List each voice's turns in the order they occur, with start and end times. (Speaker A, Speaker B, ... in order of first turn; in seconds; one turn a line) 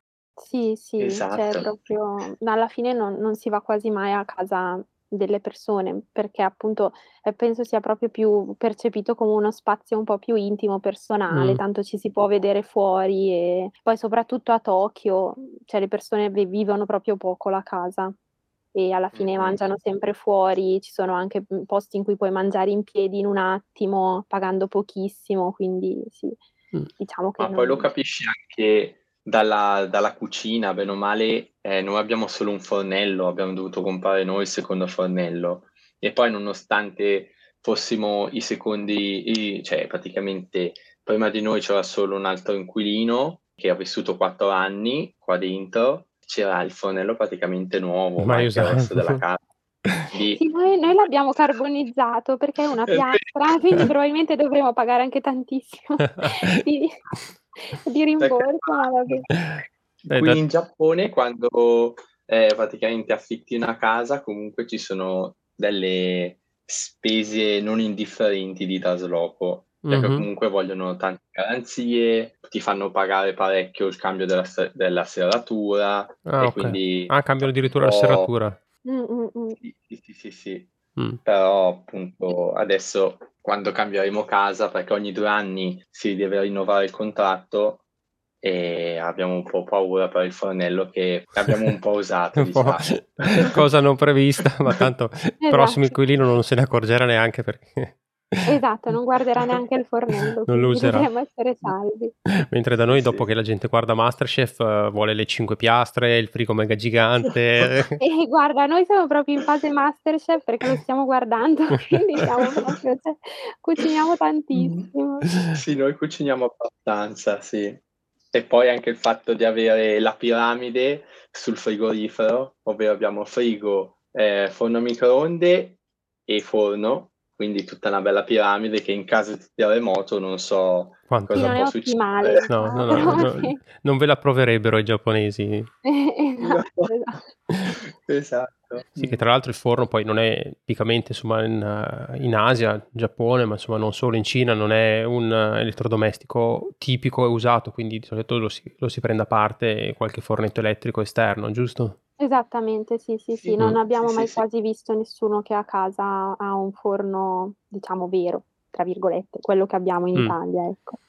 Speaker A: 0.4-18.1
Speaker B: 1.0-1.7
Speaker C: 11.3-11.6
Speaker A: 18.7-26.4
Speaker B: 19.1-19.6
Speaker A: 27.0-27.9
Speaker B: 27.4-49.5
Speaker C: 48.2-49.2
Speaker B: 50.0-50.4
Speaker A: 50.4-57.0
Speaker B: 52.9-53.9
Speaker C: 56.2-56.6
Speaker A: 57.6-59.3
Speaker B: 58.2-58.9
Speaker C: 59.4-60.4
Speaker B: 60.0-78.3
Speaker C: 69.8-70.3
Speaker C: 76.3-78.6
Speaker A: 78.8-79.6
Speaker B: 79.6-80.7
Speaker B: 81.2-87.8
Speaker B: 88.4-93.6
Speaker C: 92.4-98.5
Speaker A: 95.4-96.0
Speaker A: 98.5-102.1
Speaker C: 100.5-101.1
Speaker C: 102.3-108.0
Speaker B: 102.9-103.3
Speaker A: 108.0-115.3
Speaker B: 112.2-112.7
Speaker B: 114.6-114.9
Speaker C: 115.3-115.6
Speaker B: 115.5-117.8
Speaker B: 118.3-133.3
Speaker C: 131.1-131.6
Speaker A: 131.3-133.6
Speaker C: 132.4-135.7
Speaker A: 135.8-137.2
Speaker B: 136.4-137.0
Speaker B: 137.7-139.2
Speaker C: 139.0-152.0
Speaker A: 152.2-161.0
Speaker B: 153.3-154.4